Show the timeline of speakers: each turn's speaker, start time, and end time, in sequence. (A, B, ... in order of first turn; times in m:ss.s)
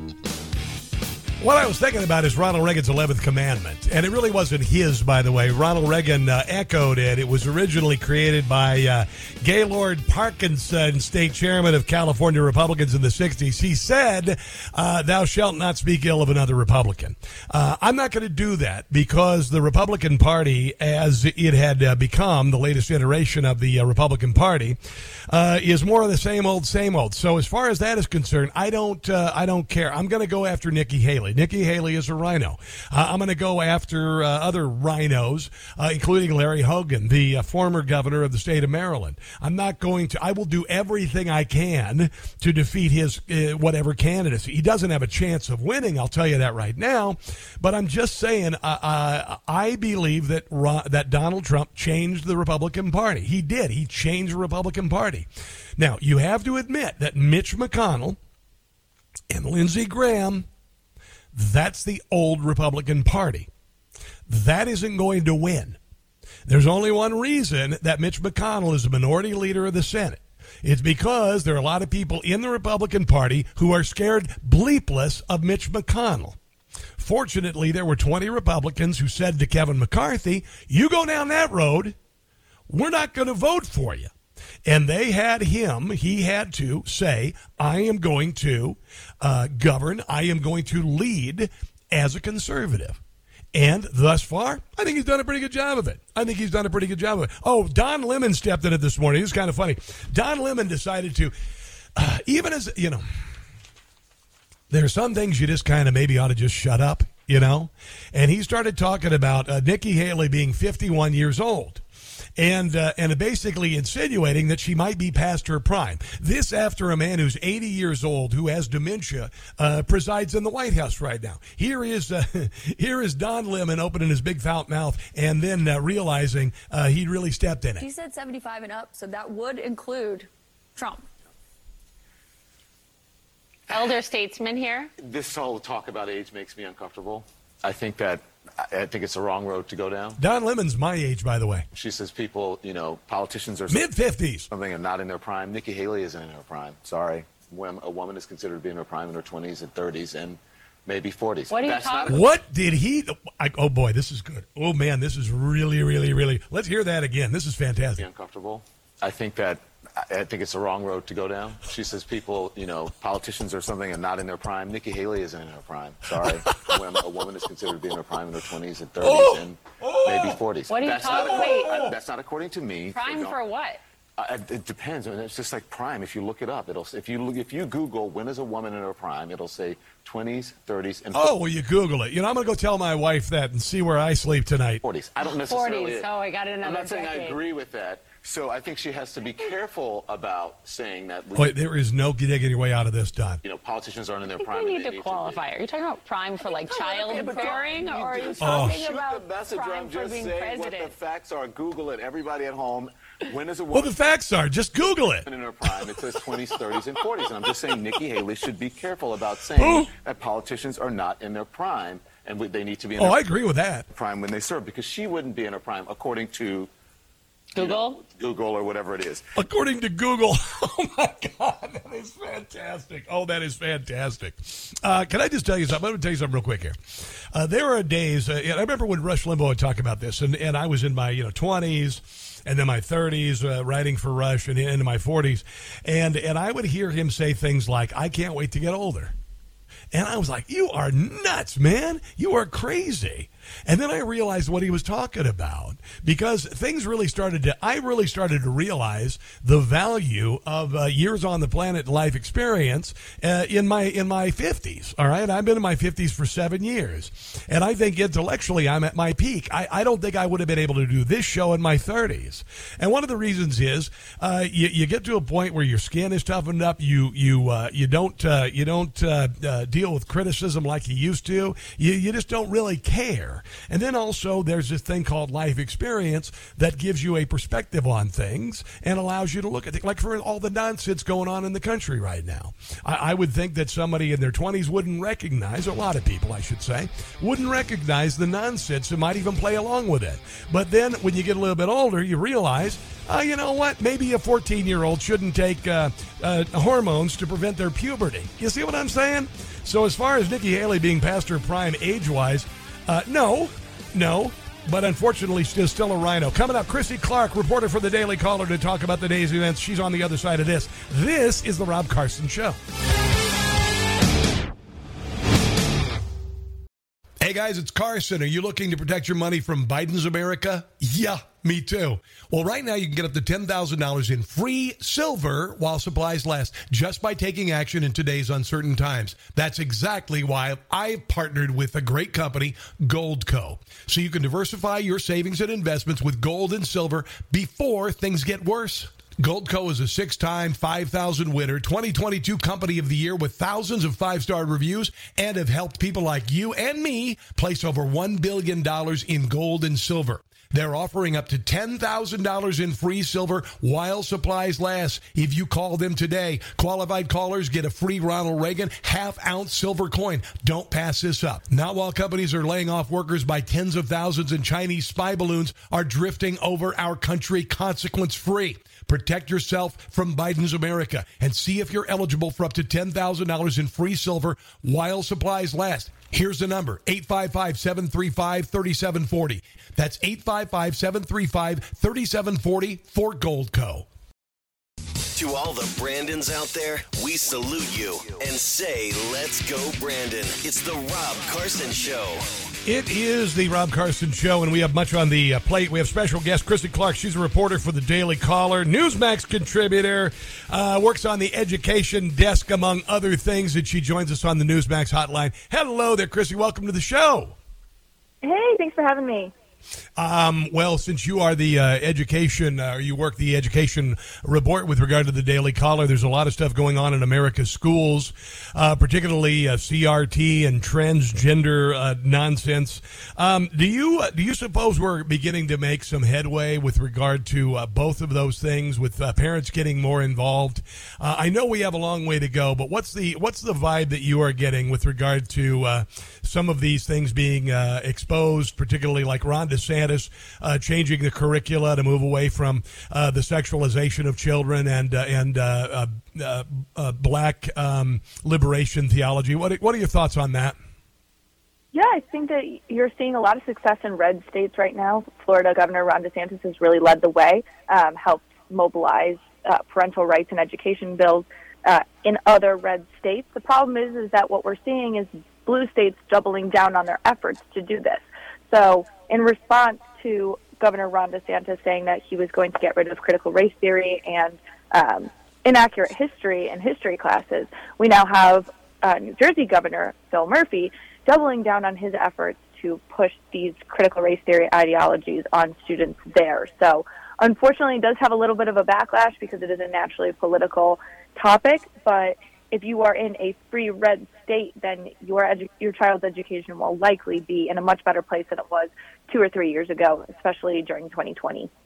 0:01.4-0:24.8 A
0:25.3-0:58.2 A
0:59.3-1:00.5 A
1:01.3-1:03.5 A
1:04.3-1:05.8 A
1:06.5-1:16.4 A
1:17.0-1:22.0 A
1:22.7-1:24.1 A
1:24.7-1:33.0 A
1:33.5-1:41.3 A
1:42.0-1:43.0 A
1:44.7-1:51.8 A
1:52.4-2:07.9 A
2:07.8-2:11.1 B
2:13.7-2:14.9 C
2:15.0-2:20.2 D
2:20.2-2:21.7 A
2:21.7-2:23.8 D
2:23.7-2:24.5 A
2:24.5-2:32.2 D
2:31.5-2:32.2 C
2:32.1-2:38.1 A
2:38.0-2:53.4 D
2:46.5-2:46.7 A
2:49.0-2:50.4 A
2:50.7-2:51.9 C
2:51.0-2:52.0 A
2:52.9-2:53.8 C
2:54.2-3:01.3 D
3:01.1-3:04.8 A
3:04.8-3:11.5 D
3:05.5-3:07.4 C
3:11.4-3:13.4 A
3:13.4-3:15.4 D
3:14.4-3:20.9 C
3:16.6-3:24.0 D
3:17.1-3:17.7 B
3:18.4-3:18.8 A
3:18.4-3:19.2 B
3:23.7-3:25.8 A
3:25.2-3:33.2 D
3:29.6-3:29.9 A
3:33.0-3:33.9 A
3:33.9-3:36.7 D
3:37.6-3:38.0 C
3:37.6-3:39.2 D
3:39.4-3:46.8 A
3:47.3-3:59.1 A
3:59.9-5:12.6 A
5:17.2-6:23.9 A
6:25.1-6:32.4 E
6:32.6-6:47.4 A
6:48.2-6:49.3 F
6:50.0-7:30.6 A
7:31.7-8:21.5 F